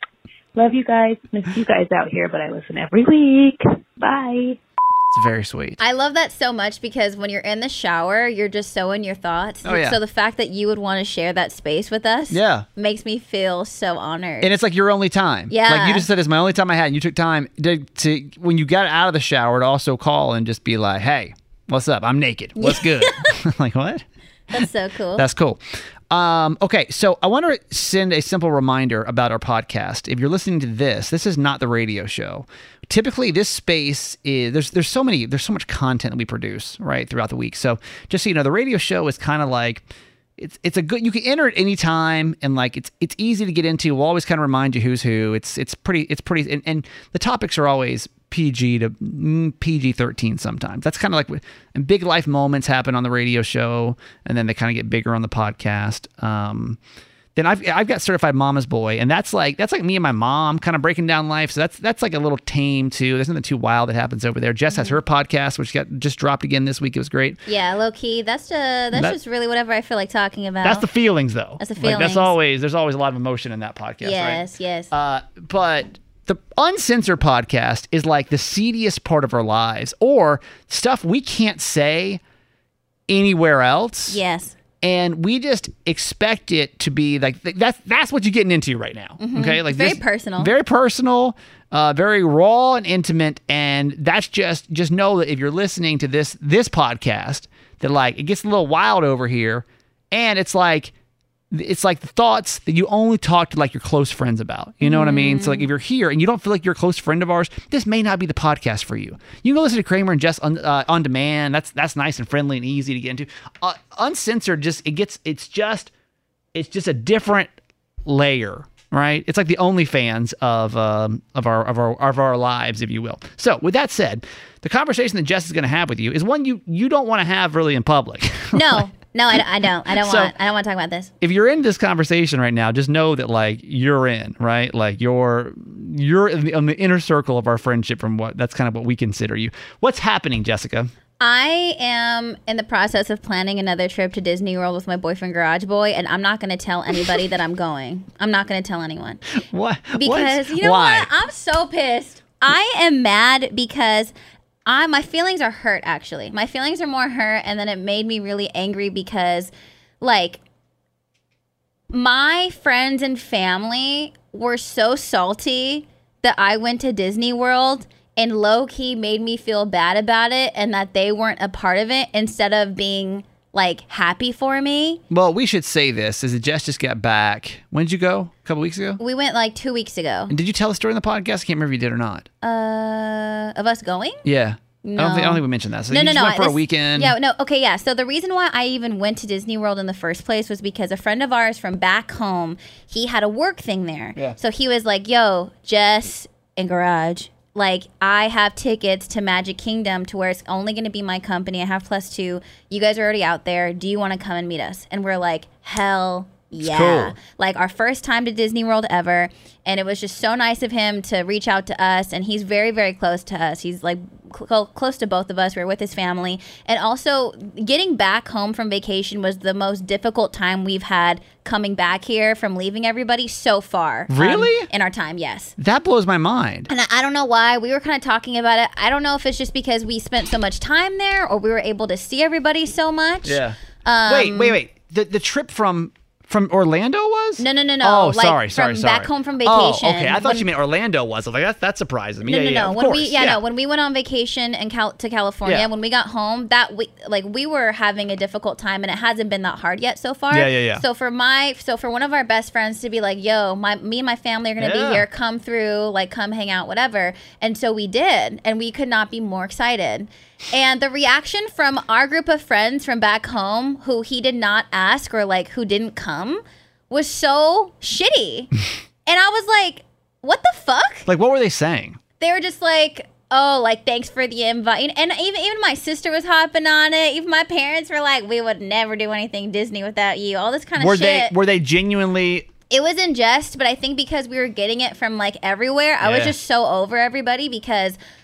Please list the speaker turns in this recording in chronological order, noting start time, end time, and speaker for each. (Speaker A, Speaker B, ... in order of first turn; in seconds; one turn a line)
Speaker A: 0.5-4.6
Speaker B: 5.1-5.8
Speaker C: 5.8-14.5
Speaker B: 9.6-10.0
Speaker B: 12.3-12.7
Speaker B: 14.4-24.0
Speaker C: 15.5-16.1
Speaker C: 22.6-23.1
Speaker C: 24.5-25.2
Speaker B: 25.1-39.8
Speaker B: 40.4-56.8
Speaker B: 57.4-67.4
Speaker C: 64.7-65.0
Speaker C: 67.5-70.8
Speaker B: 70.6-82.2
Speaker C: 71.6-72.3
Speaker C: 74.0-74.9
Speaker B: 83.1-84.2
Speaker C: 84.1-84.5
Speaker B: 84.8-100.9
Speaker C: 89.2-90.5
Speaker B: 101.5-115.9
Speaker C: 104.8-105.7
Speaker B: 116.5-117.5
Speaker B: 118.0-128.8
Speaker C: 128.5-131.1
Speaker B: 129.9-130.3
Speaker B: 131.2-140.9
Speaker C: 141.2-149.2
Speaker B: 149.5-151.1
Speaker C: 150.0-154.1
Speaker C: 154.7-160.4
Speaker C: 161.9-175.0
Speaker B: 175.1-179.0
Speaker C: 179.0-180.3
Speaker B: 180.3-182.3
Speaker C: 182.4-184.2
Speaker B: 184.2-187.1
Speaker C: 184.8-225.5
Speaker B: 206.6-207.1
Speaker B: 224.1-224.7
Speaker B: 225.6-226.7
Speaker C: 226.7-234.6
Speaker B: 233.2-243.4
Speaker C: 237.4-240.4
Speaker C: 242.2-268.5
Speaker B: 250.3-250.8
Speaker B: 254.6-255.0
Speaker C: 269.1-271.1
Speaker B: 271.1-272.0
Speaker C: 272.2-281.3
Speaker B: 280.8-282.5
Speaker C: 282.7-288.0
Speaker B: 286.0-286.3